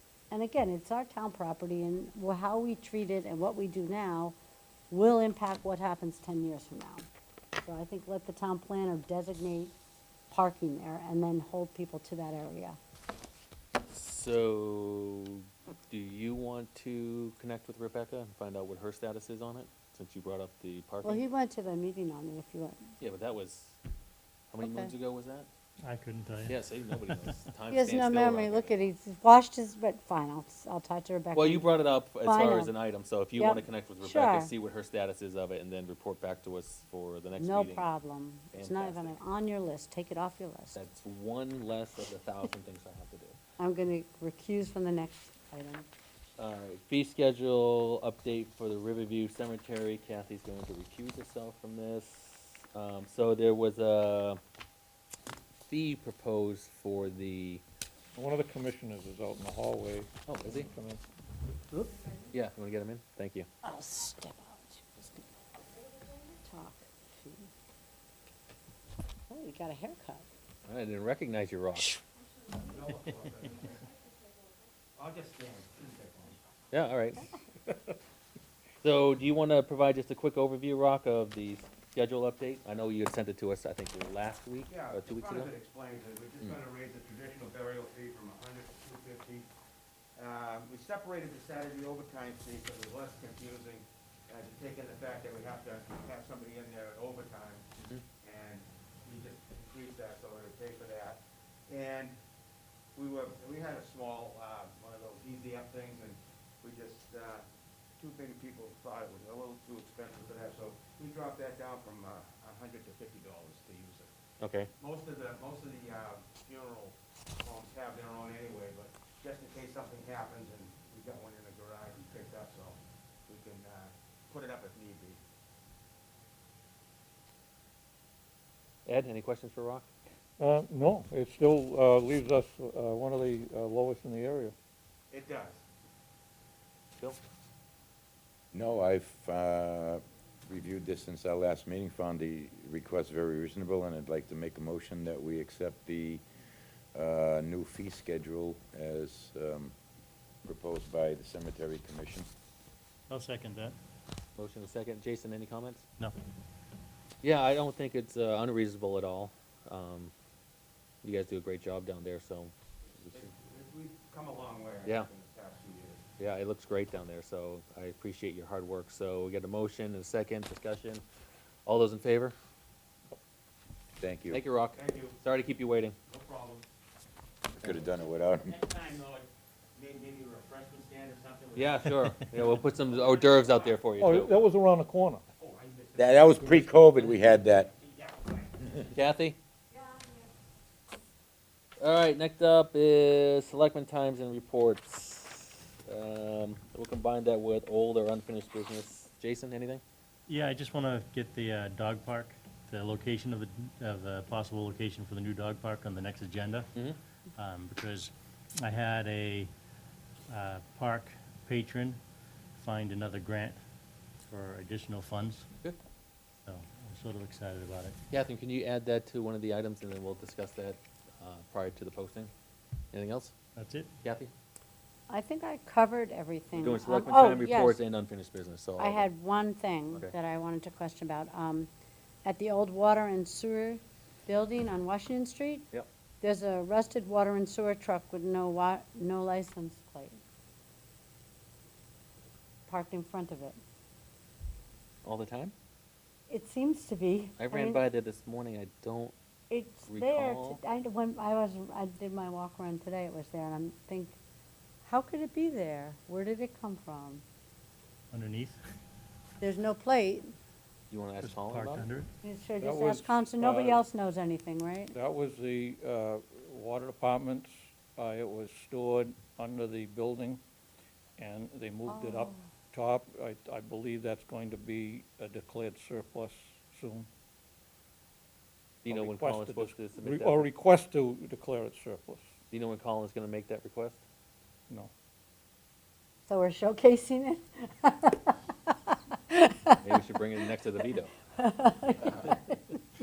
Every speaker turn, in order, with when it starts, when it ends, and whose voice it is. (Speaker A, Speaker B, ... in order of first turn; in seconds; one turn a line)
Speaker A: 0.3-4.3
Speaker A: 4.9-7.0
Speaker A: 7.6-9.7
Speaker A: 10.3-12.8
Speaker B: 13.9-21.2
Speaker A: 21.0-22.9
Speaker B: 23.0-23.8
Speaker B: 24.5-25.5
Speaker A: 24.6-24.9
Speaker C: 25.8-27.1
Speaker B: 26.5-28.8
Speaker A: 27.7-31.7
Speaker B: 31.3-37.9
Speaker A: 32.2-32.7
Speaker A: 33.4-34.5
Speaker A: 37.4-40.8
Speaker B: 38.5-39.2
Speaker B: 40.7-43.4
Speaker A: 43.6-45.9
Speaker B: 46.4-54.4
Speaker B: 55.6-57.6
Speaker D: 58.2-60.1
Speaker B: 60.3-60.7
Speaker D: 60.6-61.0
Speaker B: 62.3-63.5
Speaker A: 63.6-65.3
Speaker A: 66.1-67.5
Speaker A: 69.3-70.3
Speaker B: 70.7-72.0
Speaker E: 72.5-73.8
Speaker E: 75.0-76.4
Speaker B: 76.7-77.3
Speaker B: 78.8-85.5
Speaker E: 84.7-89.5
Speaker E: 90.2-102.2
Speaker E: 103.0-107.5
Speaker E: 108.0-114.1
Speaker B: 114.4-114.7
Speaker E: 114.8-125.2
Speaker B: 128.8-129.9
Speaker D: 130.4-134.6
Speaker E: 135.1-135.6
Speaker F: 138.5-146.2
Speaker F: 146.9-149.7
Speaker F: 150.4-152.3
Speaker C: 153.1-153.8
Speaker B: 154.4-155.8
Speaker B: 157.2-160.1
Speaker B: 161.0-163.2
Speaker E: 163.1-166.1
Speaker B: 166.2-171.0
Speaker B: 171.7-172.3
Speaker F: 174.0-174.4
Speaker B: 174.3-176.0
Speaker E: 174.7-175.2
Speaker E: 176.1-176.7
Speaker F: 177.6-178.5
Speaker E: 178.4-183.8
Speaker B: 181.6-184.3
Speaker D: 184.0-185.2
Speaker E: 185.4-188.9
Speaker F: 186.0-187.7
Speaker B: 188.9-189.4
Speaker B: 191.8-199.8
Speaker C: 200.3-206.7
Speaker C: 207.4-209.5
Speaker C: 210.3-212.0
Speaker C: 212.6-213.6
Speaker C: 214.2-215.5
Speaker C: 216.4-218.0
Speaker B: 218.1-222.3
Speaker B: 222.9-223.3
Speaker C: 223.6-223.9
Speaker B: 224.0-224.3
Speaker A: 225.1-227.8
Speaker B: 226.6-229.1
Speaker A: 228.8-231.7
Speaker A: 232.2-235.7
Speaker A: 236.2-240.2
Speaker A: 242.7-243.6
Speaker B: 245.1-245.5
Speaker A: 246.3-247.8
Speaker B: 247.4-249.2
Speaker A: 249.5-254.2
Speaker B: 249.8-250.6
Speaker A: 254.8-257.2
Speaker C: 258.1-258.6
Speaker A: 259.4-260.3
Speaker B: 260.9-261.9
Speaker C: 261.2-262.1
Speaker A: 262.2-264.9
Speaker D: 262.6-263.8
Speaker D: 264.9-270.4
Speaker D: 271.2-277.1
Speaker A: 271.9-272.4
Speaker B: 278.8-280.5
Speaker D: 278.9-282.3
Speaker B: 282.5-284.0
Speaker A: 286.3-289.8
Speaker B: 289.8-291.1
Speaker A: 291.4-292.8